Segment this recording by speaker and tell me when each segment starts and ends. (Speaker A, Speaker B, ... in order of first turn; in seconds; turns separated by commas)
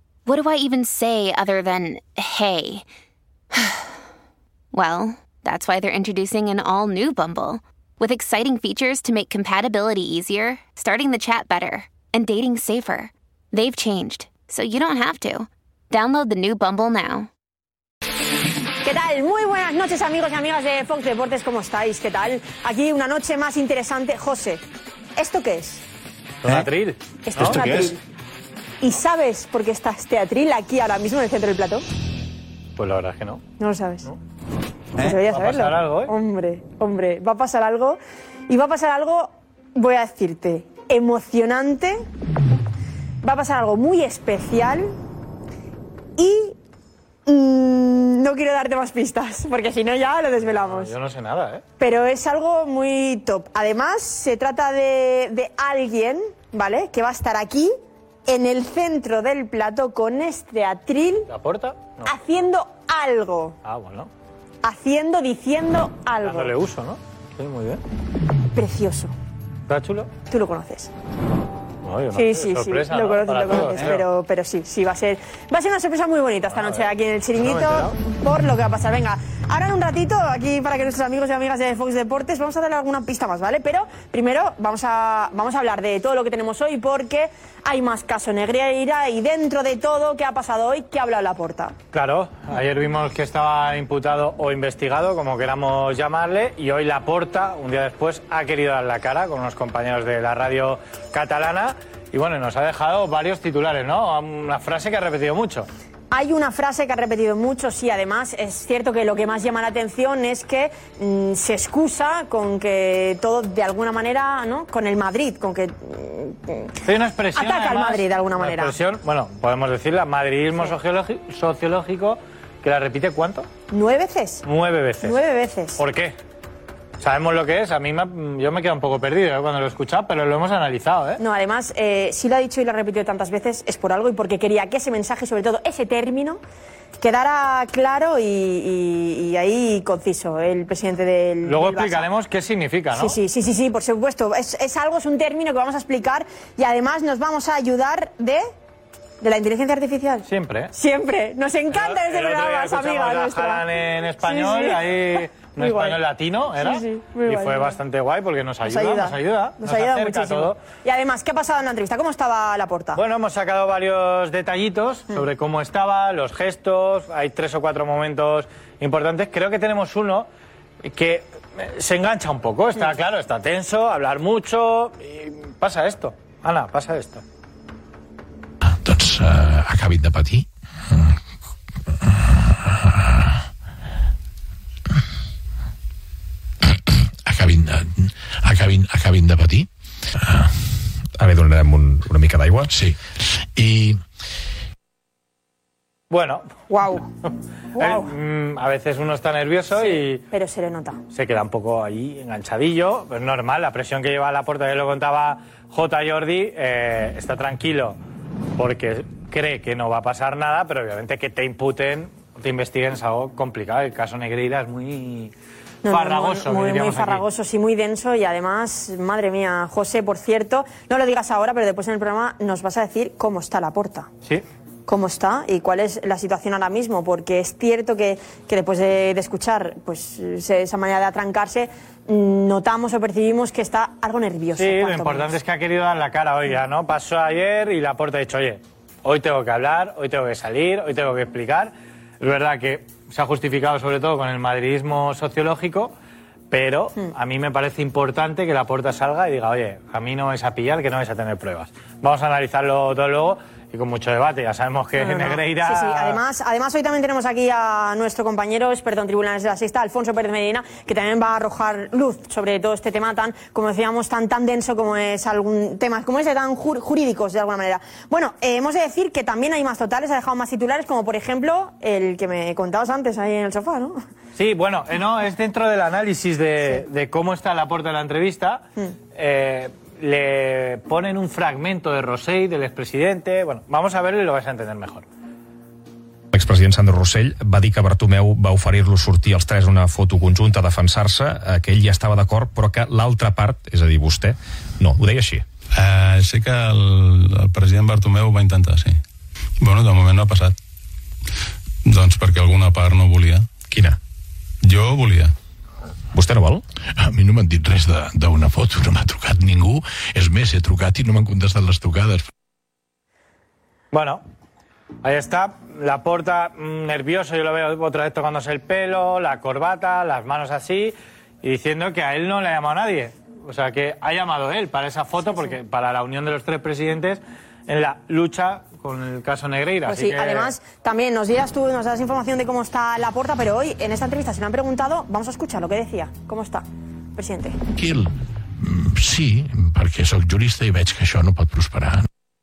Speaker A: 0.2-2.8, Speaker A: 3.5-4.0, Speaker A: 4.7-17.3, Speaker B: 18.8-24.6, Speaker B: 25.2-25.8, Speaker C: 26.4-27.7, Speaker B: 27.2-28.0, Speaker B: 28.8-31.8, Speaker C: 32.8-33.4, Speaker B: 33.6-34.1, Speaker B: 35.0-42.0, Speaker C: 35.0-36.1, Speaker B: 43.2-44.9, Speaker B: 46.2-46.5, Speaker B: 47.3-50.9, Speaker C: 50.4-51.6, Speaker B: 51.8-57.7, Speaker B: 58.3-61.2, Speaker C: 61.3-62.2, Speaker B: 62.0-63.5, Speaker C: 63.6-64.1, Speaker B: 64.6-66.5, Speaker C: 66.2-67.8, Speaker B: 68.5-69.1, Speaker C: 69.7-70.1, Speaker B: 70.3-70.9, Speaker C: 71.8-74.0, Speaker B: 72.1-91.7, Speaker C: 76.5-77.9, Speaker C: 91.9-105.7, Speaker B: 106.1-116.7, Speaker C: 116.8-123.5, Speaker B: 117.3-118.7, Speaker B: 123.7-124.4, Speaker C: 124.4-125.2, Speaker B: 125.0-125.8, Speaker C: 125.8-126.2, Speaker C: 127.0-131.2, Speaker B: 131.2-136.4, Speaker B: 137.0-142.1, Speaker C: 141.4-143.2, Speaker B: 142.9-148.5, Speaker B: 149.2-153.6, Speaker C: 150.2-150.7, Speaker C: 151.7-160.6, Speaker B: 154.2-156.0, Speaker B: 156.6-157.8, Speaker B: 158.6-163.0, Speaker C: 162.9-170.3, Speaker C: 170.8-177.2, Speaker D: 178.7-181.1, Speaker D: 182.3-183.3, Speaker D: 187.2-189.7, Speaker D: 190.2-190.5, Speaker E: 191.2-192.7, Speaker D: 192.7-192.9, Speaker D: 193.6-194.0, Speaker C: 196.1-196.6, Speaker B: 196.7-197.0, Speaker C: 197.2-200.2, Speaker B: 197.7-198.1, Speaker B: 199.8-201.0, Speaker C: 201.1-208.0, Speaker C: 208.6-215.3, Speaker B: 215.8-224.1, Speaker C: 215.9-217.2, Speaker B: 224.9-235.3, Speaker C: 234.6-245.9, Speaker C: 246.5-256.2, Speaker B: 255.0-274.0, Speaker C: 274.4-285.1, Speaker E: 286.3-295.4, Speaker F: 295.7-299.0, Speaker F: 299.6-300.5, Speaker F: 301.9-303.6, Speaker E: 303.7-304.0, Speaker F: 304.6-305.3, Speaker E: 306.1-306.6, Speaker D: 307.0-312.3, Speaker C: 313.9-314.2, Speaker C: 315.0-330.5, Speaker B: 329.9-337.6, Speaker D: 337.8-342.1